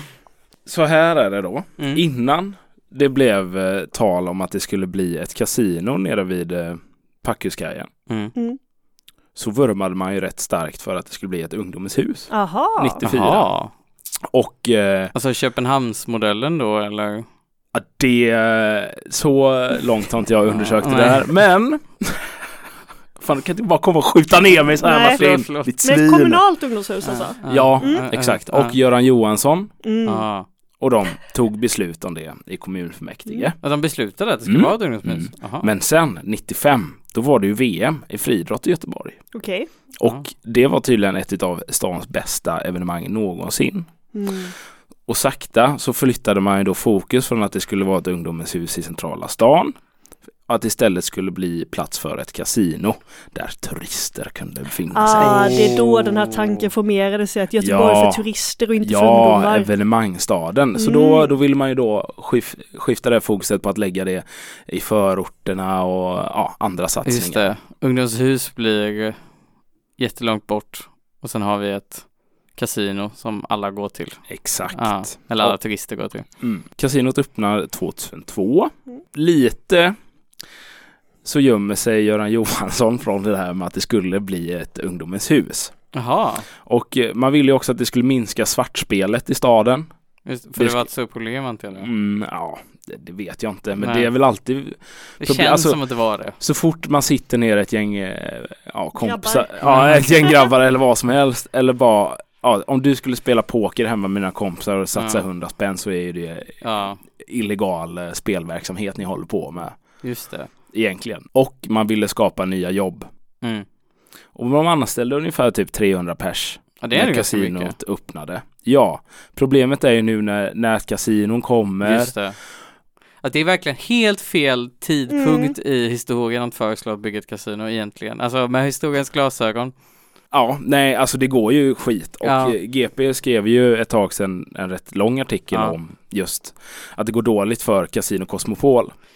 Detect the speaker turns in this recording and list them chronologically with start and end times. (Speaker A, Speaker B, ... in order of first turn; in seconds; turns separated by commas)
Speaker A: 0.7-7.9, Speaker B: 1.8-2.0, Speaker B: 8.1-8.3, Speaker A: 9.3-13.5, Speaker C: 12.3-13.0, Speaker B: 13.0-13.7, Speaker A: 14.3-15.1, Speaker B: 15.1-17.3, Speaker A: 17.7-22.3, Speaker B: 20.5-21.3, Speaker A: 23.2-26.4, Speaker C: 24.8-25.3, Speaker B: 24.9-25.7, Speaker C: 25.8-28.1, Speaker B: 27.0-28.8, Speaker A: 27.5-29.7, Speaker C: 29.8-30.2, Speaker B: 30.1-30.5, Speaker A: 30.8-33.6, Speaker B: 33.6-35.7, Speaker A: 34.5-39.2, Speaker C: 39.3-39.7, Speaker A: 40.0-43.9, Speaker C: 44.1-44.5, Speaker A: 45.1-49.8, Speaker A: 50.5-55.9, Speaker C: 54.9-59.7, Speaker A: 57.6-58.2, Speaker A: 58.8-67.5, Speaker C: 60.8-61.3, Speaker B: 67.0-69.2, Speaker B: 70.0-72.0, Speaker B: 72.5-76.2, Speaker A: 74.3-75.6, Speaker A: 76.4-80.0, Speaker A: 81.2-85.7, Speaker B: 85.9-86.5, Speaker A: 86.6-89.9, Speaker B: 90.3-91.9, Speaker A: 90.6-90.9, Speaker A: 91.8-95.8, Speaker B: 93.8-94.1, Speaker B: 95.2-96.4, Speaker A: 96.4-106.5, Speaker C: 99.0-100.4, Speaker B: 99.6-100.1, Speaker B: 105.0-105.2, Speaker B: 106.6-107.0, Speaker A: 107.2-109.8, Speaker B: 110.0-110.5, Speaker A: 110.7-113.1, Speaker A: 114.3-122.1, Speaker B: 116.8-117.8, Speaker B: 121.8-122.4, Speaker B: 123.2-129.7, Speaker C: 125.1-125.5, Speaker A: 130.3-138.9, Speaker B: 132.2-132.6